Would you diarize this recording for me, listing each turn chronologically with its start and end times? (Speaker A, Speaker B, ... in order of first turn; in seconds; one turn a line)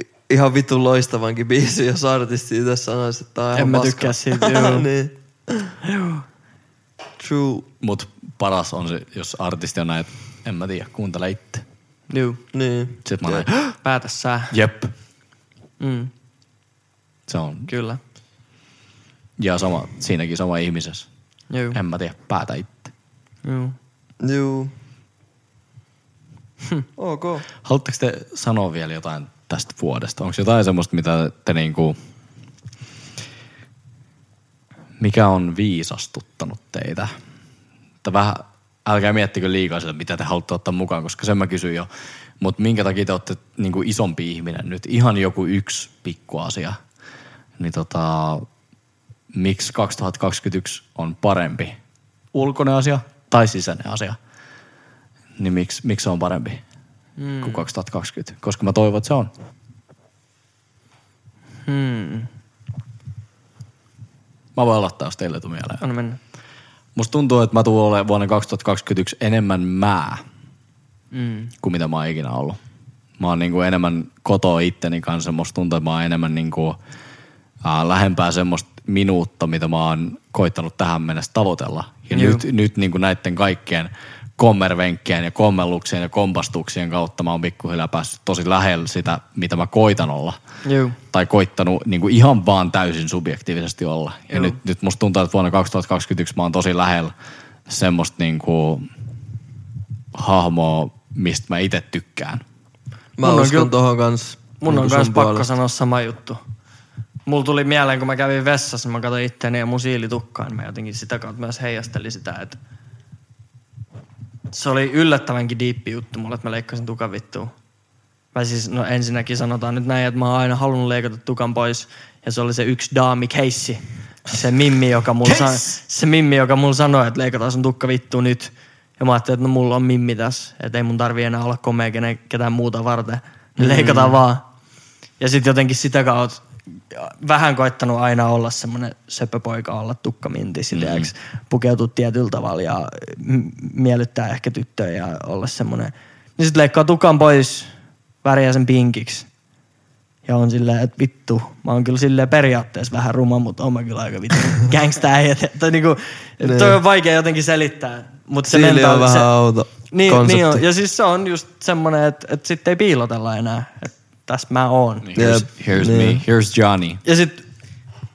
Speaker A: 0.3-5.7
Speaker B: 3.5-4.8
Speaker B: 5.8-6.2
Speaker A: 7.2-7.7
Speaker C: 7.8-11.6
Speaker B: 12.1-12.4
Speaker A: 12.5-13.5
Speaker C: 13.1-13.7
Speaker B: 13.8-14.5
Speaker C: 14.5-14.9
Speaker B: 15.8-16.1
Speaker C: 17.3-17.7
Speaker B: 17.7-18.0
Speaker C: 19.4-21.1
Speaker B: 21.5-21.8
Speaker C: 21.7-22.9
Speaker B: 23.4-23.7
Speaker A: 24.2-24.7
Speaker A: 27.0-27.5
Speaker C: 27.6-31.9
Speaker C: 35.0-37.1
Speaker C: 38.0-41.9
Speaker C: 42.4-46.8
Speaker C: 47.6-48.5
Speaker C: 49.3-51.8
Speaker C: 52.3-54.2
Speaker C: 55.4-56.6
Speaker B: 57.2-57.6
Speaker C: 57.4-59.3
Speaker B: 61.6-62.3
Speaker C: 64.5-65.8
Speaker B: 65.8-66.2
Speaker C: 66.9-70.2
Speaker B: 71.1-71.5
Speaker C: 71.6-72.6
Speaker C: 73.2-76.8
Speaker C: 77.6-90.4
Speaker B: 82.1-82.4
Speaker B: 90.6-91.0
Speaker C: 91.1-97.1
Speaker B: 94.3-94.6
Speaker C: 97.7-98.8
Speaker C: 100.1-102.4
Speaker A: 103.2-105.5
Speaker B: 103.2-103.7
Speaker B: 104.6-106.4
Speaker B: 107.3-112.6
Speaker B: 114.5-117.5
Speaker B: 118.3-134.4
Speaker C: 133.6-134.2
Speaker B: 135.2-147.7
Speaker C: 140.7-141.1
Speaker B: 148.2-149.3
Speaker B: 150.2-159.3
Speaker A: 156.4-156.8
Speaker A: 158.5-160.6
Speaker B: 159.9-165.1
Speaker C: 165.0-167.0
Speaker A: 165.2-166.2
Speaker B: 167.0-167.4